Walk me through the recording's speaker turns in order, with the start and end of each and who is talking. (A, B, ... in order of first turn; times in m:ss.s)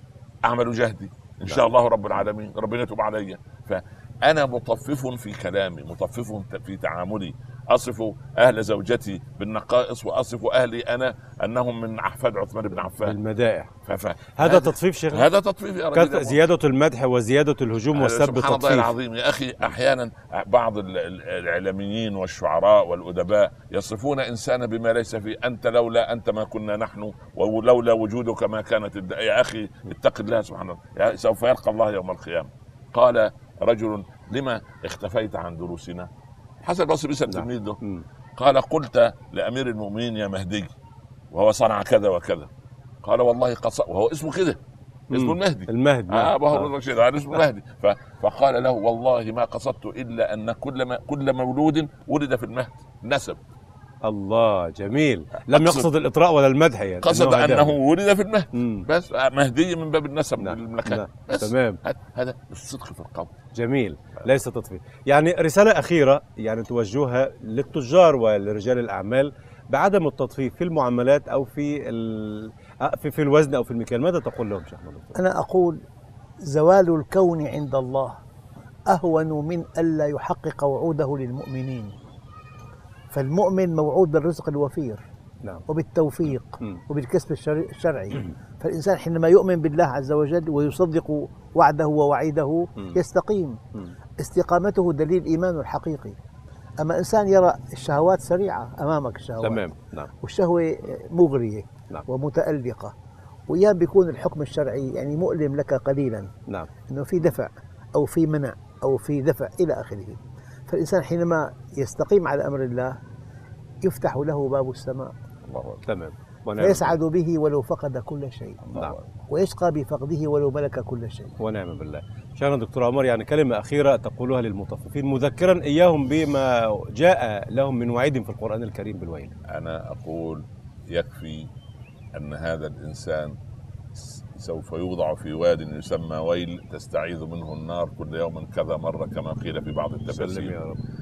0:00.4-0:13.2 A
0:12.9-0:13.7 B
0:13.8-0:16.5 A
0:14.4-0:15.2 B
0:15.9-0:18.9 B
0:17.9-0:36.1 A
0:36.6-0:37.8 A
0:37.3-0:38.0 B
0:38.4-0:40.7 A
0:41.3-0:42.5 A
0:43.0-0:44.6 A
0:45.1-0:46.7 B
0:45.1-0:53.4 A
0:54.0-0:57.7 B
0:55.5-0:55.9 A
0:57.0-1:03.3 A
0:58.5-0:58.9 B
1:00.4-1:01.8 B
1:03.6-1:15.2 B
1:15.1-1:15.8 C
1:16.4-1:18.2 C
1:18.9-1:21.9 C
1:23.1-1:25.0 C
1:25.7-1:33.6 C
1:34.2-1:36.2 C
1:36.8-1:39.7 C
1:39.4-1:40.1 B
1:40.2-1:42.9 C
1:43.5-1:46.3 C
1:46.9-1:53.0 C
1:53.8-1:55.1 C
1:55.5-1:55.8 A
1:55.9-1:57.0 B
1:56.6-1:58.6 C
1:58.6-1:59.2 A
1:59.3-2:01.3 C
2:01.4-2:09.3 B
2:09.5-2:11.5 A
2:12.1-2:13.4 A
2:13.9-2:20.5 A
2:20.1-2:20.8 B